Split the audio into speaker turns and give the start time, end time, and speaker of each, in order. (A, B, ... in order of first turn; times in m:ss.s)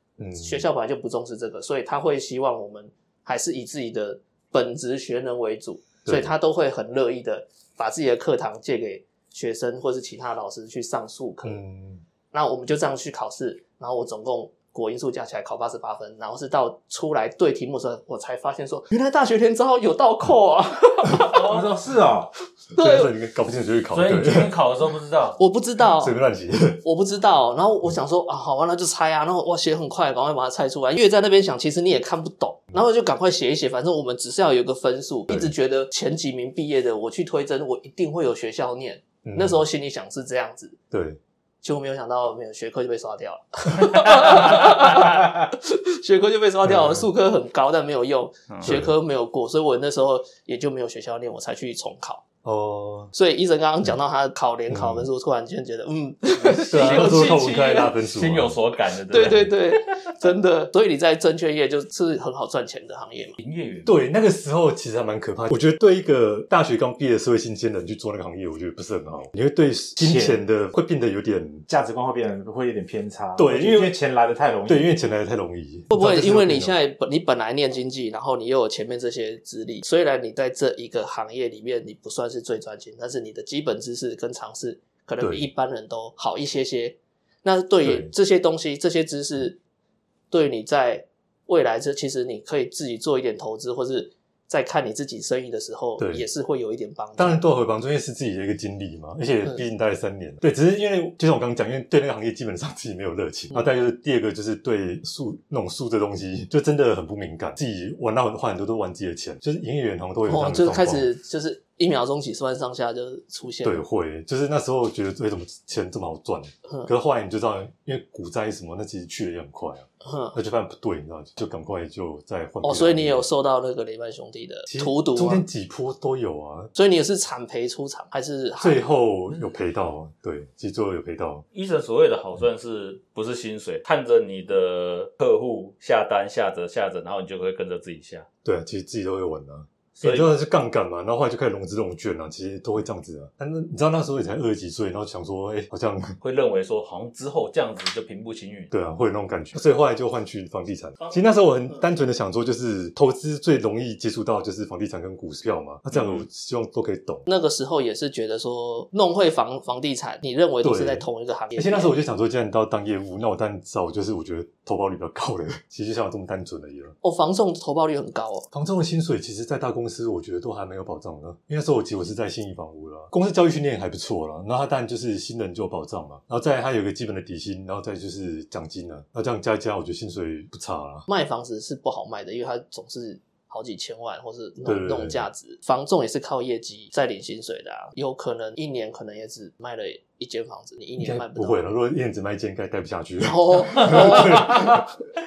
0:00.2-0:00.7 A
0:00.4-0:11.6 B
0:06.1-0:06.3 A
0:11.4-0:12.0 A
0:12.3-0:21.5 B
0:21.2-0:21.7 C
0:21.3-0:22.3 D
0:22.7-0:23.1 B
0:22.8-0:24.5 A
0:23.9-0:25.4 C
0:25.4-0:26.2 B
0:25.8-0:26.8 A
0:26.8-0:40.8 B
0:35.3-0:35.6 A
0:39.2-0:39.6 A
0:40.9-0:41.2 A
0:41.6-0:52.2 B
0:44.2-0:45.0 C
0:46.7-0:47.0 A
0:48.5-0:48.8 C
0:48.6-0:48.9 A
0:52.4-0:53.1 A
0:53.1-0:57.9 B
0:54.7-0:55.1 A
0:56.3-0:59.6 C
0:56.7-0:58.6 A
0:59.1-1:03.4 B
1:03.4-1:04.0 C
1:03.8-1:11.7 A
1:10.0-1:10.4 D
1:11.7-1:14.9 D
1:13.4-1:13.9 A
1:14.7-1:16.7 A
1:15.9-1:29.6 B
1:25.2-1:25.5 A
1:27.8-1:28.1 A
1:30.3-1:37.4 B
1:36.0-1:36.2 A
1:37.2-1:51.1 A
1:50.3-1:53.8 B
1:53.6-2:03.2 A
2:00.0-2:00.4 B
2:02.6-2:05.4 B
2:04.7-2:06.7 A
2:06.8-2:08.8 B
2:08.6-2:11.4 A
2:11.5-2:18.3 C
2:18.4-2:26.2 A
2:20.0-2:20.3 C
2:26.2-2:28.7 C
2:28.7-2:37.3 A
2:35.9-2:36.3 C
2:37.3-2:41.9 B
2:40.6-2:47.0 A
2:47.0-2:48.5 B
2:48.5-3:01.1 A
3:01.1-3:11.6 B
3:04.6-3:05.3 A
3:11.0-3:14.9 A
3:13.2-3:14.9 B